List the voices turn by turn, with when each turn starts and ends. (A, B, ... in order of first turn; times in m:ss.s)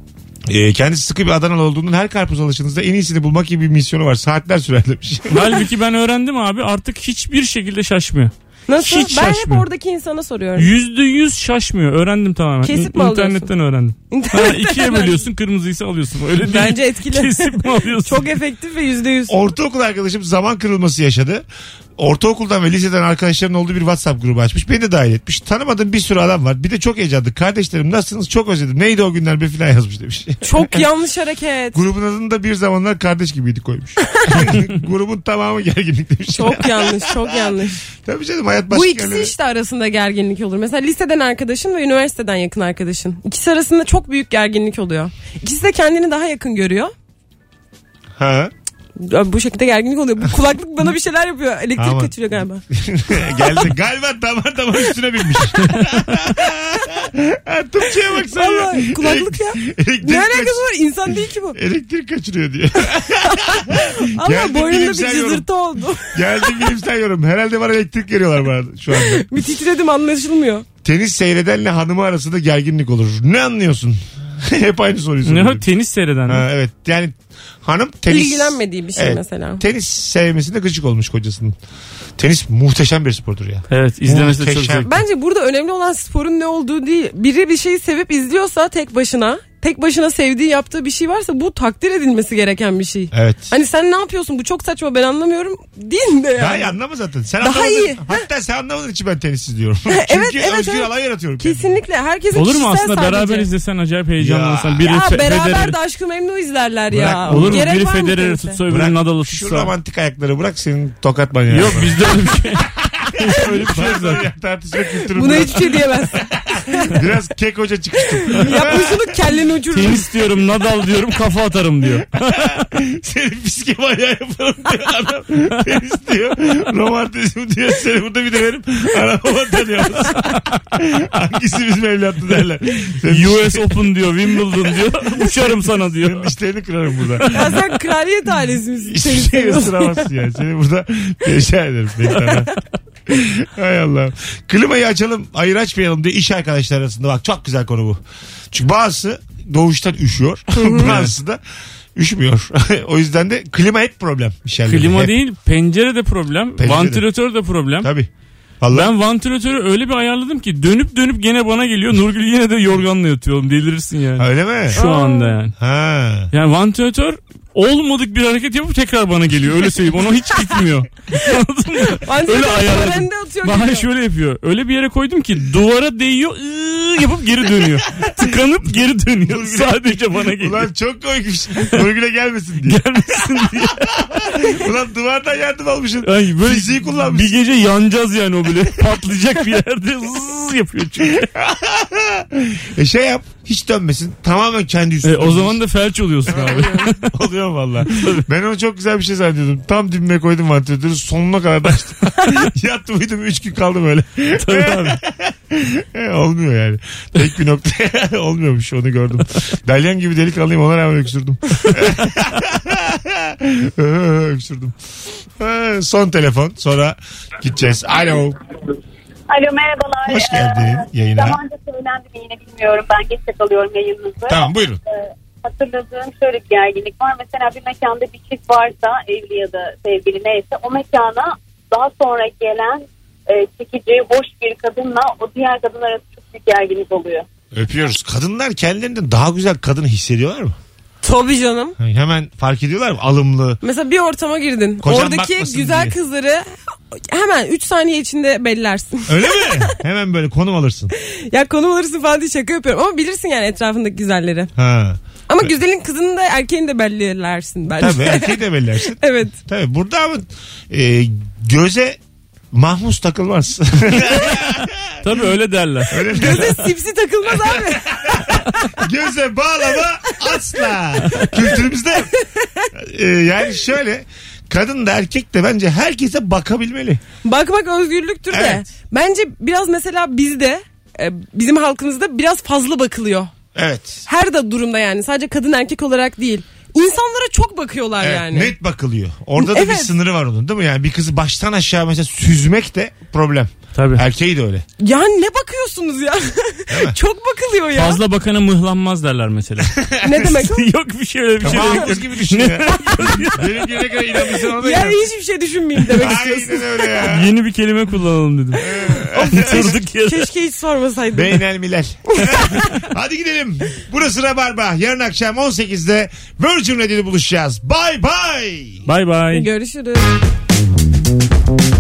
0:00.5-0:05.6 A
0:05.3-0:09.6 B
0:08.7-0:10.7 C
0:10.6-0:18.4 B
0:12.6-0:13.5 C
0:14.1-0:15.2 C
0:16.4-0:19.4 C
0:19.3-0:21.4 A
0:22.0-0:30.8 A
0:30.4-0:31.8 C
0:31.7-0:39.3 A
0:34.2-0:34.5 C
0:36.4-0:37.8 C
0:38.7-0:46.9 C
0:48.2-0:48.5 A
0:49.0-0:52.6 C
0:51.8-0:52.2 A
0:52.7-1:00.7 A
0:53.2-0:53.7 C
0:58.1-1:01.6 C
1:01.5-1:05.5 A
1:03.2-1:06.6 C
1:06.0-1:09.4 A
1:08.9-1:10.6 C
1:10.8-1:15.7 A
1:15.2-1:16.4 B
1:16.3-1:21.6 A
1:18.1-1:19.6 C
1:22.2-1:24.9 A
1:23.7-1:24.9 B
1:24.8-1:36.7 C
1:33.1-1:33.5 A
1:36.4-1:41.7 A
1:37.4-1:38.2 C
1:39.9-1:40.9 C
1:41.4-1:43.5 C
1:42.3-1:45.8 B
1:44.2-1:44.8 A
1:44.8-1:48.6 C
1:46.9-1:47.6 A
1:47.3-1:49.7 B
1:48.7-1:52.1 A
1:51.5-1:54.2 B
1:53.0-1:59.1 A
1:55.1-1:57.0 C
1:58.1-2:00.1 C
1:59.7-2:02.7 B
2:02.4-2:17.6 A
2:13.0-2:16.3 B
2:17.3-2:20.1 C
2:18.9-2:22.5 A
2:22.2-2:22.4 C
2:23.1-2:28.0 A
2:28.5-2:31.4 A
2:30.6-2:31.0 C
2:32.0-2:35.2 A
2:34.7-2:37.9 B
2:36.6-2:37.1 A
2:37.8-2:38.1 A
2:38.6-2:38.9 A
2:38.7-2:45.6 B
2:44.2-2:44.8 A
2:44.7-2:45.4 C
2:45.6-2:46.3 A
2:46.3-3:00.7 B
2:51.8-2:53.9 C
2:58.0-2:58.7 A
2:59.2-3:07.4 A
3:02.6-3:04.4 B
3:06.0-3:11.2 B
3:11.0-3:15.6 A
3:15.0-3:17.1 B
3:16.3-3:34.8 A
3:17.9-3:18.2 B
3:24.4-3:25.0 B
3:35.4-3:38.4 A
3:39.3-3:44.5 D
3:40.1-3:41.4 A
3:44.3-3:44.8 A
3:45.4-3:57.3 D
3:57.5-4:00.6 A
4:01.0-4:01.8 C
4:01.8-4:03.6 A
4:03.6-4:09.8 C
4:04.8-4:06.0 A
4:09.1-4:10.9 A
4:11.0-4:14.5 C
4:14.6-4:15.5 A
4:15.3-4:18.4 C
4:17.8-4:22.0 A
4:19.0-4:19.3 C
4:22.5-4:25.0 A
4:25.0-4:26.5 B
4:25.9-4:26.6 A
4:26.1-4:28.4 C
4:27.4-4:32.1 A
4:30.1-4:30.5 C
4:32.1-4:32.7 C
4:32.7-4:37.0 A
4:37.2-4:43.3 C
4:38.3-4:38.7 A
4:43.5-4:44.0 A
4:44.1-4:48.5 C
4:48.0-4:54.6 A
4:49.4-4:49.9 C
4:53.8-4:54.0 B
4:54.8-4:58.0 C
4:56.7-4:57.0 A
4:57.8-5:03.9 B
4:59.9-5:00.2 A
5:00.0-5:00.7 C
5:01.4-5:05.0 A
5:01.5-5:01.8 C
5:04.6-5:07.0 C
5:05.9-5:07.3 A
5:07.1-5:10.3 B
5:08.6-5:09.7 A
5:09.1-5:11.4 C
5:11.1-5:18.9 A
5:12.3-5:12.6 C
5:18.9-5:19.5 B
5:19.3-5:20.1 C